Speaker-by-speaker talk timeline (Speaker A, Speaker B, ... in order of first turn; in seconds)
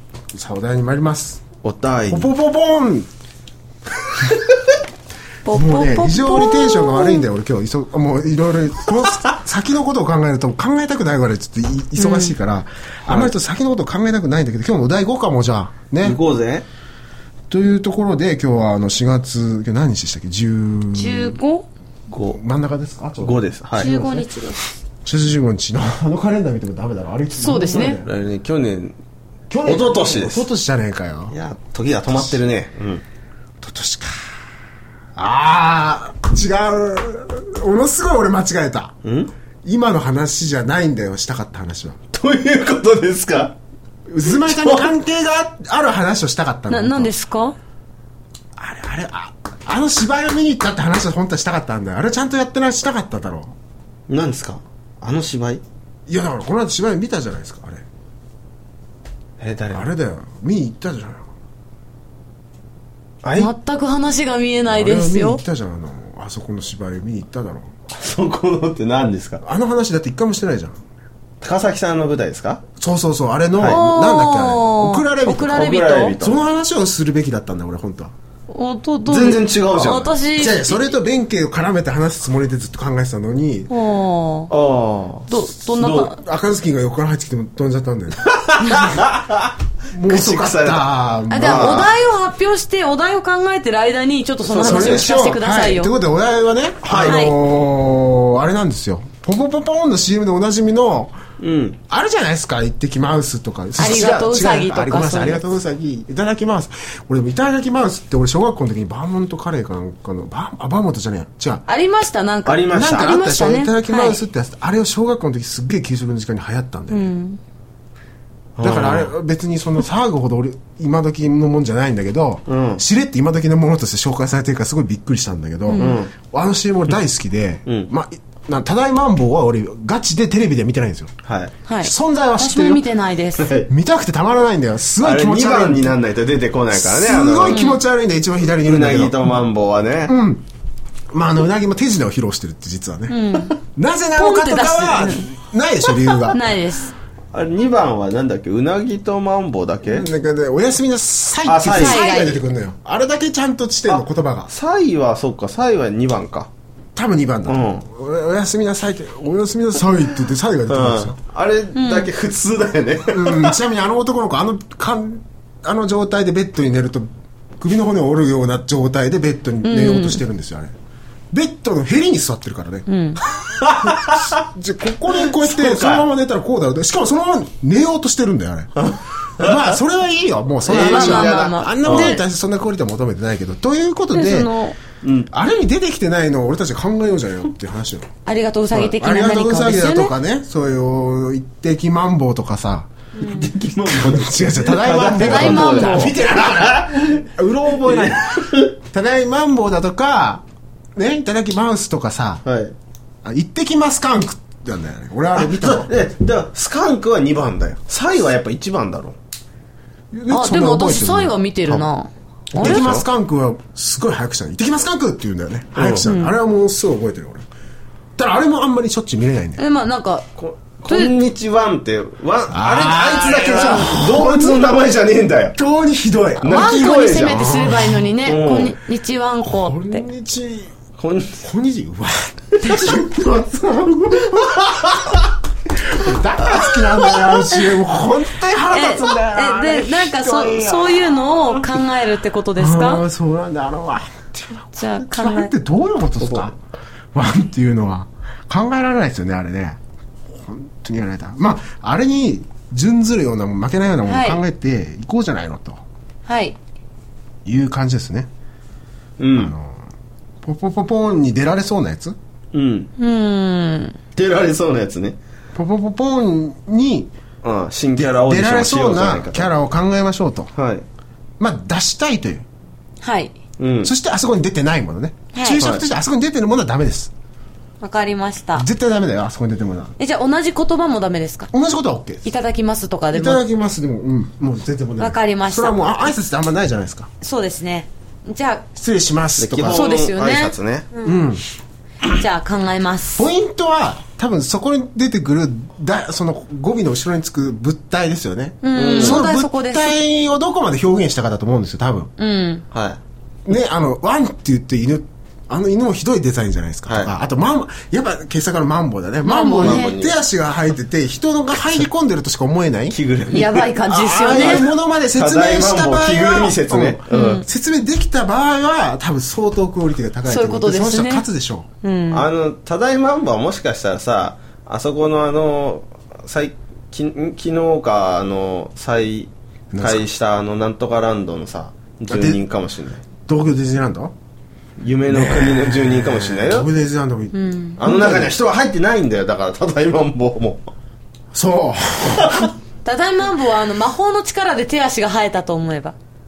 Speaker A: 0.3-1.4, 2.1-3.1, 5.5-16.2, 17.5-21.4, 22.3-24.4, 25.0-28.1, 29.5-31.4, 33.6-34.3, 35.1-39.0, 39.6-42.0, 44.1-47.1, 48.6-53.5, 56.1-57.9, 59.7-61.3, 64.7-67.7, 69.4-70.8, 72.8-78.1, 80.4-83.7, 85.8-89.0, 89.9-91.9, 94.5-101.2, 101.9-111.6, 112.7-117.1, 118.6-131.1, 131.8-132.8, 133.7-136.0, 136.7-139.4, 140.1-140.4, 141.1-146.4, 149.9-154.5, 156.9-161.2, 163.1-170.7, 171.3-172.9, 173.8-178.7, 179.4-184.5, 185.3-188.1, 188.7-192.9, 193.4-200.4, 201.0-202.4, 203.2-205.9, 210.1-211.9, 212.5-217.4, 218.2-219.6, 222.5-224.8, 225.6-228.1, 229.4-230.7, 231.4-235.2, 235.8-241.2, 242.6-246.6, 247.1-255.8, 257.4-258.3, 259.4-259.9, 260.4-262.2, 265.6-267.1, 268.0-270.5, 271.4-272.5, 273.8-277.1, 278.6-279.9, 281.5-282.3, 283.1-287.1, 288.8-289.9, 291.0-291.4, 293.2-302.1, 303.5-313.0, 313.8-321.7, 329.7-330.1, 332.1-332.4, 333.2-334.1, 335.1-338.4, 341.3-342.5
Speaker B: 1.6-2.3, 13.1-13.3, 16.0-16.7, 22.1-22.4, 23.2-23.9, 27.7-29.0, 29.6-30.5, 31.3-33.0, 39.0-39.3, 42.1-43.5, 44.3-44.9, 54.1-55.6, 59.4-59.9, 63.2-63.5, 67.9-69.4, 71.4-72.6, 73.5-73.8, 75.5-76.4, 79.1-80.2, 84.5-86.1, 88.2-91.9, 94.4-95.1, 96.8-97.3, 101.4-101.8, 103.8-104.3, 112.5-113.2, 118.6-119.1, 122.5-122.8, 125.7-126.1, 131.2-131.5, 133.4-133.7, 135.0-137.7, 138.6-140.2, 147.3-150.1, 151.5-152.1, 154.5-156.5, 157.5-157.8, 160.7-163.6, 173.4-174.4, 175.1-176.1, 178.8-179.8, 180.7-182.2, 185.0-185.3, 193.2-198.7, 202.4-202.8, 205.4-209.2, 212.6-213.1, 215.8-216.1, 220.4-225.6, 226.4-228.7, 231.0-231.4, 234.4-235.2, 236.4-237.2, 246.2-246.5, 259.2-259.5, 262.5-262.9, 264.2-265.2, 267.4-269.5, 270.6-270.9, 273.6-273.9, 275.5-275.8, 289.4-290.9, 298.7-299.2, 302.7-303.0, 306.9-307.1, 309.5-310.1, 312.9-313.7, 314.2-317.4, 322.1-333.0, 334.8-336.7, 337.8-340.7, 342.1-342.5
Speaker C: 5.5-7.3, 12.0-12.4, 20.9-21.7, 23.8-24.6, 27.4-28.0, 46.7-47.6, 63.4-65.4, 73.6-76.2, 78.5-80.9, 83.7-84.5, 85.3-86.2, 91.3-95.9, 97.0-97.4, 103.8-105.4, 111.7-114.2, 116.9-117.4, 125.7-126.0, 131.7-133.5, 137.5-137.8, 143.1-143.6, 144.2-145.3, 146.3-146.9, 151.7-152.4, 161.8-162.1, 169.6-170.2, 172.9-173.2, 180.7-182.2, 184.1-184.8, 188.3-190.2, 193.2-193.5, 195.0-196.2, 210.3-212.9, 216.0-216.4, 219.6-220.3, 220.9-221.1, 223.4-223.8, 226.4-230.1, 232.7-232.9, 238.7-243.0, 244.8-245.5, 254.1-254.4, 256.3-256.6, 263.0-264.0, 273.0-273.3, 275.3-275.6, 277.8-278.7, 280.0-281.5, 282.2-283.4, 285.0-286.1, 287.2-288.7, 289.7-291.3, 292.1-293.3, 298.6-300.0, 302.2-302.6, 309.2-309.9, 313.3-314.7, 317.1-317.5, 320.3-321.3, 321.8-322.3, 337.3-337.8, 342.9-345.9